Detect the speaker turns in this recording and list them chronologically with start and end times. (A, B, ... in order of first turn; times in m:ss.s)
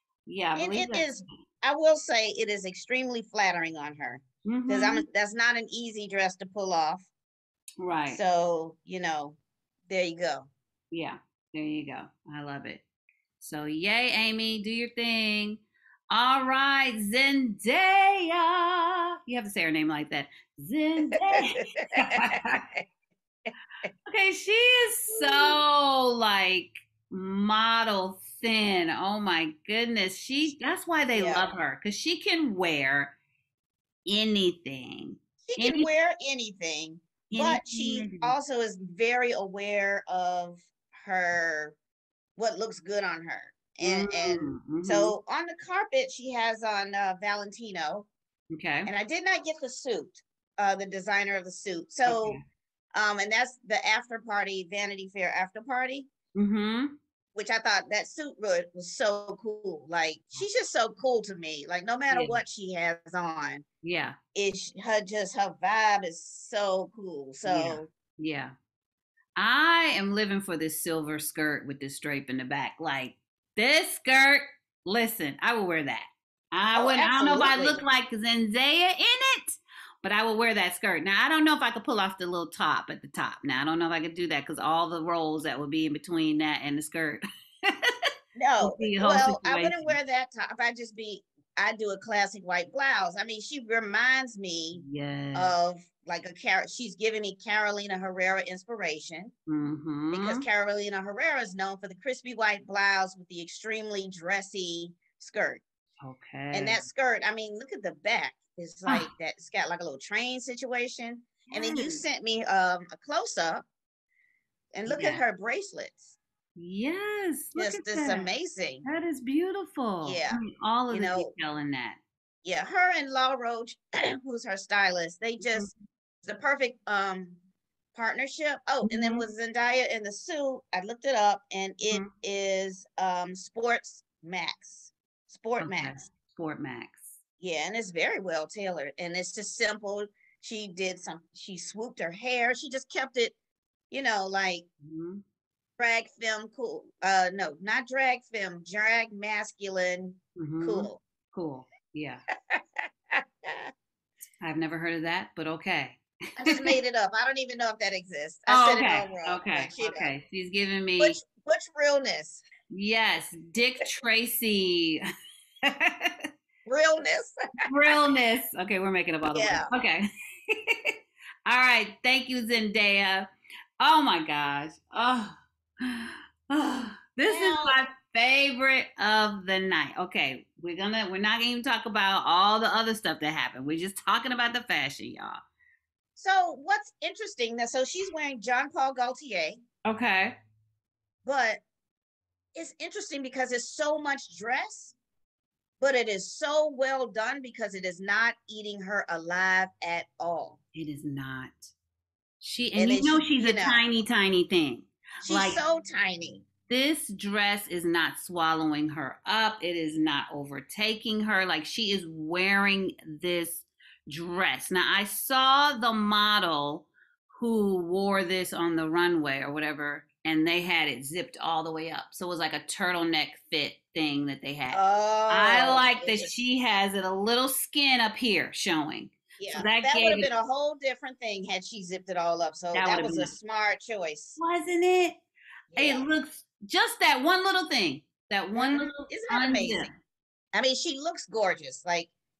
0:00.3-0:01.1 A
0:00.6-0:07.1 B
0:04.5-0:05.0 A
0:07.8-0:08.2 A
0:08.1-0:10.5 B
0:10.9-0:12.8 A
0:13.4-0:22.6 A
0:21.1-0:22.8 B
0:24.1-0:33.2 A
0:25.1-0:25.6 B
0:31.1-0:31.4 B
0:34.1-0:35.9 A
0:35.5-0:41.8 B
0:37.3-0:38.4 A
0:42.4-0:48.1 B
0:43.8-0:45.2 A
0:48.5-0:48.9 A
0:48.9-0:52.4 B
0:52.1-0:52.4 A
0:52.9-0:56.1 B
0:56.4-0:56.9 A
0:57.4-1:03.6 B
1:02.1-1:02.4 A
1:03.8-1:04.2 A
1:04.4-1:07.9 B
1:07.4-1:08.5 A
1:09.4-1:27.9 A
1:16.8-1:17.8 B
1:28.4-1:34.8 B
1:28.6-1:30.0 A
1:34.8-1:35.6 A
1:35.3-1:39.3 B
1:39.5-1:40.5 A
1:40.1-1:45.6 B
1:46.0-1:46.9 A
1:46.5-1:53.6 B
1:48.9-1:49.1 A
1:51.5-1:52.0 A
1:54.7-1:56.2 B
1:54.9-1:55.2 A
1:56.6-1:58.3 A
1:57.6-1:58.8 B
1:58.8-2:02.0 A
2:00.0-2:01.3 B
2:02.4-2:05.7 B
2:05.4-2:05.7 A
2:06.2-2:07.4 B
2:07.9-2:16.0 B
2:08.8-2:09.2 A
2:15.6-2:17.2 A
2:17.4-2:23.4 B
2:23.9-2:24.7 B
2:24.8-2:25.2 A
2:25.8-2:31.0 B
2:30.4-2:32.2 A
2:32.5-2:33.7 B
2:34.4-2:36.8 A
2:36.4-2:40.1 B
2:38.5-2:41.2 A
2:41.0-2:42.4 B
2:42.7-2:45.0 A
2:45.6-2:46.3 A
2:46.7-2:47.4 B
2:47.7-2:51.0 A
2:49.3-2:49.7 B
2:51.5-2:53.3 A
2:53.8-3:05.4 A
2:57.3-2:57.8 B
3:06.2-3:09.6 B
3:09.9-3:10.4 A
3:11.2-3:11.6 B
3:12.6-3:15.0 B
3:15.8-3:20.6 B
3:20.8-3:21.7 A
3:22.4-3:25.6 A
3:22.8-3:23.8 B
3:25.2-3:26.5 B
3:26.7-3:50.3 A
3:44.7-3:46.3 B
3:49.4-3:54.4 B
3:52.7-3:53.3 A
3:54.4-3:55.2 A
3:55.7-3:56.1 B
3:55.7-4:00.0 A
3:58.6-3:59.9 B
4:00.5-4:02.1 B